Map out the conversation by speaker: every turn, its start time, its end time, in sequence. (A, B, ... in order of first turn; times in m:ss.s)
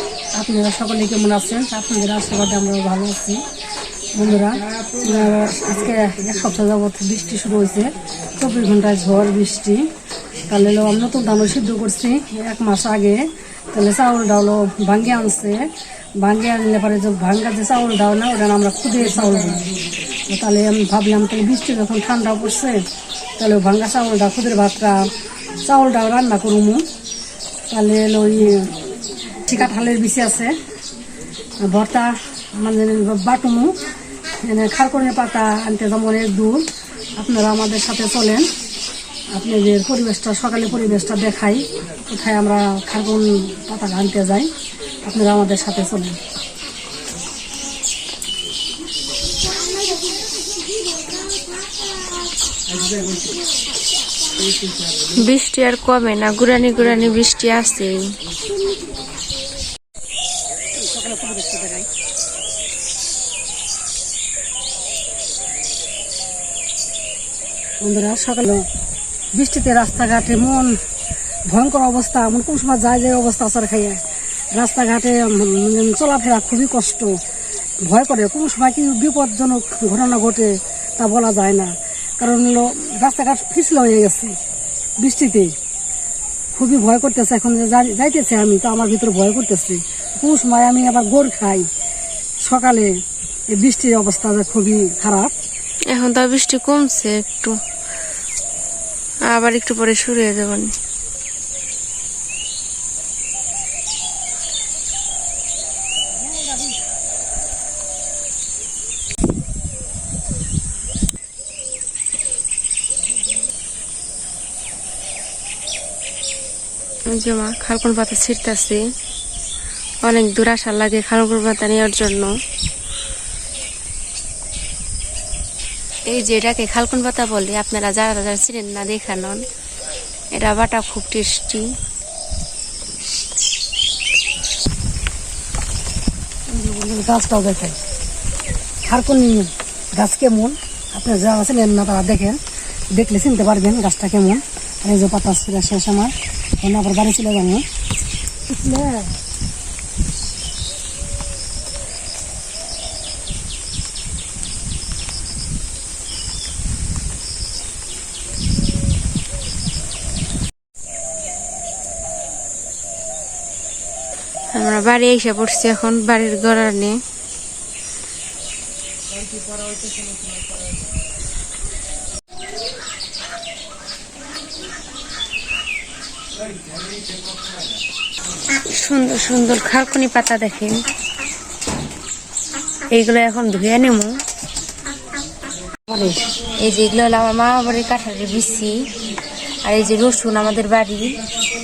0:00.4-0:03.4 A
0:04.2-0:09.9 A
0:10.5-0:13.2 A
0:13.7-0:15.6 A
0:16.2-0:19.6 A
0:20.3-0:22.8 A
0:23.4-0:25.0 A
0:25.6-0:26.8 A
0:27.7-0:28.7 A
0:29.4-0:30.5 A
0:31.6-0:33.8 A
0:34.4-0:36.6 A
0:37.2-0:38.5 A
0:39.3-0:44.5 A
0:45.0-0:46.2 A
0:55.0-0:58.1 B
1:00.8-1:01.9 A
1:07.8-1:08.6 A
1:09.4-1:10.8 A
1:11.5-1:14.0 A
1:14.6-1:17.2 A
1:17.9-1:24.4 A
1:25.0-1:25.5 A
1:26.6-1:31.7 A
1:32.4-1:32.9 A
1:33.5-1:35.3 A
1:35.9-1:37.6 B
1:39.3-1:40.8 B
1:57.1-1:58.8 B
2:00.0-2:02.3 B
2:06.1-2:09.4 B
2:10.3-2:11.6 B
2:16.5-2:17.8 A
2:18.9-2:22.4 A
2:22.9-2:27.6 A
2:28.5-2:29.1 A
2:44.5-2:47.0 B
2:58.7-3:00.8 B
3:02.9-3:04.1 B
3:05.9-3:06.2 A
3:06.6-3:08.8 B
3:09.7-3:11.1 B